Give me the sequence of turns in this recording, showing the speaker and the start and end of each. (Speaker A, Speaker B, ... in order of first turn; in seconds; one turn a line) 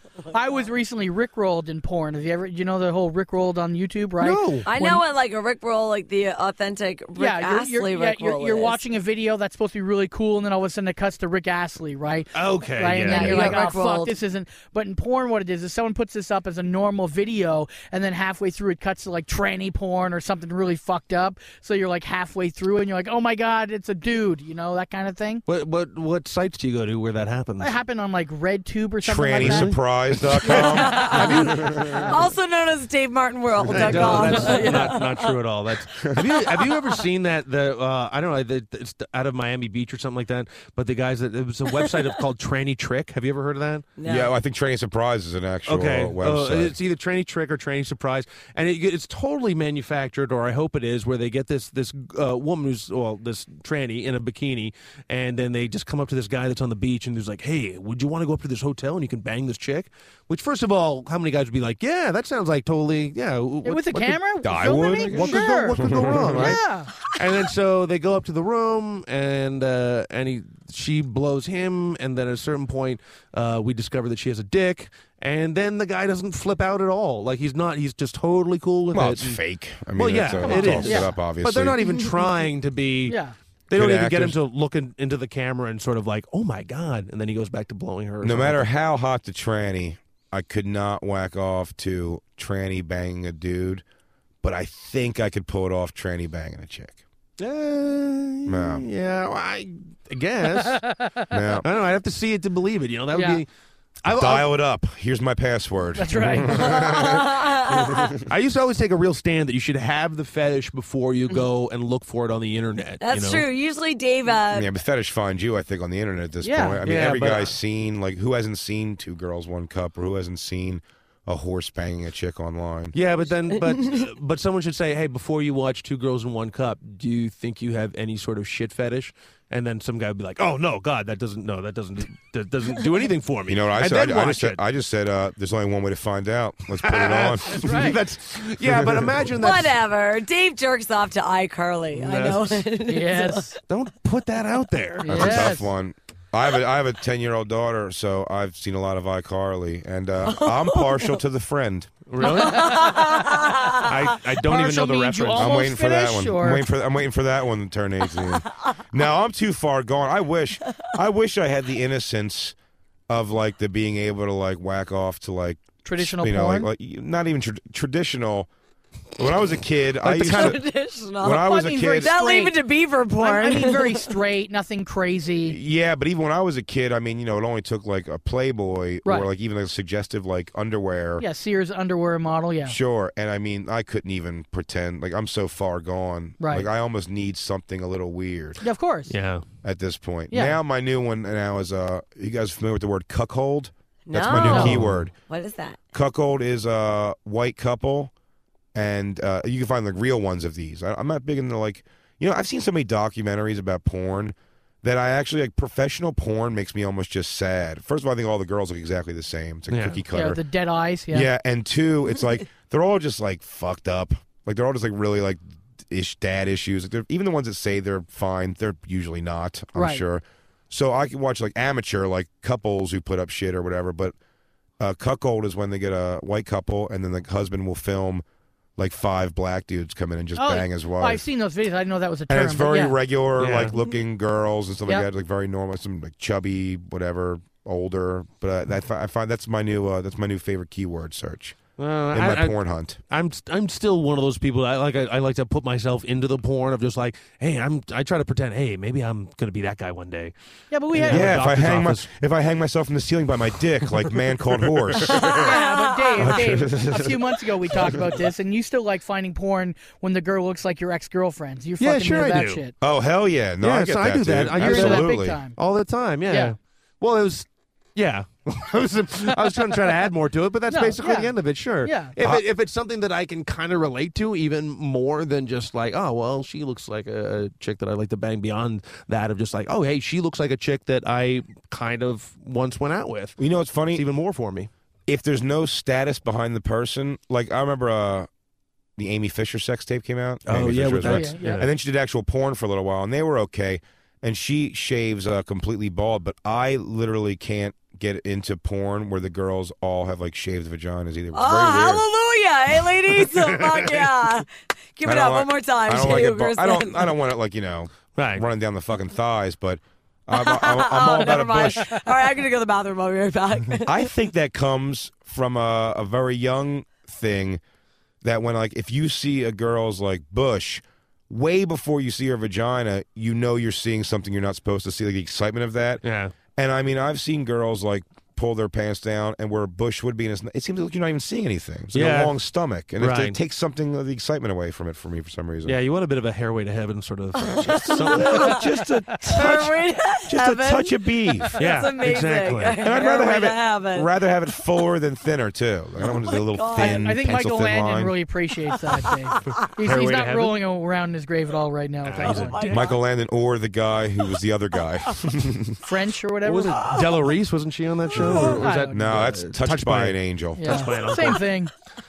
Speaker A: 0.3-5.0
Speaker B: 4.2-4.7
Speaker C: 4.6-8.8
Speaker A: 7.2-25.4
Speaker B: 12.3-13.6
Speaker C: 13.1-14.1
Speaker B: 25.4-27.7
Speaker A: 27.6-29.7
Speaker D: 29.0-31.1
Speaker B: 29.4-32.0
Speaker C: 30.5-35.4
Speaker A: 30.8-32.0
Speaker D: 31.7-31.9
Speaker B: 33.7-43.9
Speaker A: 34.0-35.0
Speaker C: 36.1-37.0
Speaker C: 44.0-44.3
Speaker D: 44.0-46.7
Speaker B: 45.6-79.4
Speaker A: 63.6-66.9
Speaker D: 64.4-66.6
Speaker D: 78.9-81.8
Speaker B: 79.9-83.2
Speaker A: 80.4-81.1
Speaker A: 83.1-83.3
Speaker B: 83.7-88.6
Speaker D: 83.7-84.4
Speaker D: 88.2-93.8
Speaker D: 94.4-97.0
Speaker B: 97.4-100.8
Speaker D: 98.5-98.9
Speaker A: 100.7-101.3
Speaker D: 101.3-101.7
Speaker B: 101.6-103.5
Speaker A: 103.1-103.4
Speaker B: 104.0-104.5
Speaker D: 104.1-108.2
Speaker A: 106.0-106.5
Speaker C: 106.5-108.2
Speaker B: 108.3-113.5
Speaker C: 113.0-114.7
Speaker D: 114.5-123.0
Speaker A: 116.4-116.8
Speaker B: 116.8-117.5
Speaker B: 122.9-134.6
Speaker D: 133.5-138.0
Speaker B: 136.8-139.7
Speaker A: 137.5-138.0
Speaker D: 138.6-139.3
Speaker C: 139.4-143.5
Speaker B: 141.9-142.6
Speaker A: 142.9-143.6
Speaker B: 143.7-145.5
Speaker A: 145.0-145.7
Speaker D: 145.1-152.0
Speaker C: 150.3-151.1
Speaker B: 152.1-152.9
Speaker C: 152.2-153.8
Speaker A: 152.3-153.6
Speaker B: 153.8-155.6
Speaker A: 154.4-156.6
Speaker D: 155.3-162.6
Speaker D: 163.1-168.5
Speaker A: 165.8-166.7
Speaker D: 169.2-170.6
Speaker B: 170.0-170.6
Speaker C: 170.2-174.1
Speaker D: 171.2-172.1
Speaker A: 171.4-172.6
Speaker A: 173.2-175.6
Speaker D: 175.4-181.2
Speaker A: 181.2-182.8
Speaker D: 182.6-188.6
Speaker A: 186.4-186.7
Speaker A: 188.6-189.1
Speaker B: 189.1-189.4
Speaker D: 189.6-195.1
Speaker A: 190.3-190.6
Speaker C: 194.1-195.8
Speaker A: 194.4-194.8
Speaker B: 194.4-195.0
Speaker D: 195.9-198.1
Speaker D: 198.7-210.4
Speaker B: 209.7-210.0
Speaker A: 210.1-211.3
Speaker D: 211.1-224.1
Speaker A: 219.7-220.0
Speaker D: 224.8-228.2
Speaker D: 228.8-231.2
Speaker A: 230.3-233.0
Speaker D: 232.3-243.0
Speaker B: 233.4-233.7
Speaker B: 241.8-242.5
Speaker B: 243.1-250.3
Speaker A: 250.7-251.4
Speaker B: 250.9-252.1
Speaker D: 251.1-255.5
Speaker C: 255.2-256.4
Speaker A: 255.2-262.7
Speaker D: 256.2-257.8
Speaker B: 261.8-262.6
Speaker D: 262.8-265.4
Speaker B: 263.6-283.4
Speaker A: 264.5-265.6
Speaker A: 266.3-266.5
Speaker A: 270.7-272.1
Speaker D: 283.4-284.1
Speaker B: 283.9-284.7
Speaker D: 285.1-288.3
Speaker D: 289.0-302.1
Speaker B: 290.5-291.7
Speaker A: 291.0-291.6
Speaker C: 301.3-307.1
Speaker B: 303.4-304.0
Speaker D: 305.0-311.9
Speaker B: 308.1-308.4
Speaker C: 310.3-314.1
Speaker D: 313.8-317.6
Speaker D: 318.2-326.0
Speaker B: 326.0-326.3
Speaker D: 326.6-335.8
Speaker B: 331.9-332.3
Speaker B: 333.0-333.4
Speaker B: 335.6-338.6
Speaker C: 337.4-338.7
Speaker D: 337.9-341.5
Speaker C: 339.3-344.1
Speaker B: 341.6-342.8
Speaker D: 342.8-348.1
Speaker C: 346.0-347.1
Speaker A: 346.8-352.6
Speaker C: 348.9-349.6
Speaker B: 349.8-350.5
Speaker B: 352.0-352.8
Speaker C: 352.2-353.0
Speaker D: 352.7-355.8
Speaker A: 355.8-356.9
Speaker B: 356.4-361.4
Speaker C: 356.8-357.3
Speaker C: 358.1-358.6
Speaker D: 358.1-361.1
Speaker A: 358.4-358.9
Speaker A: 360.6-361.7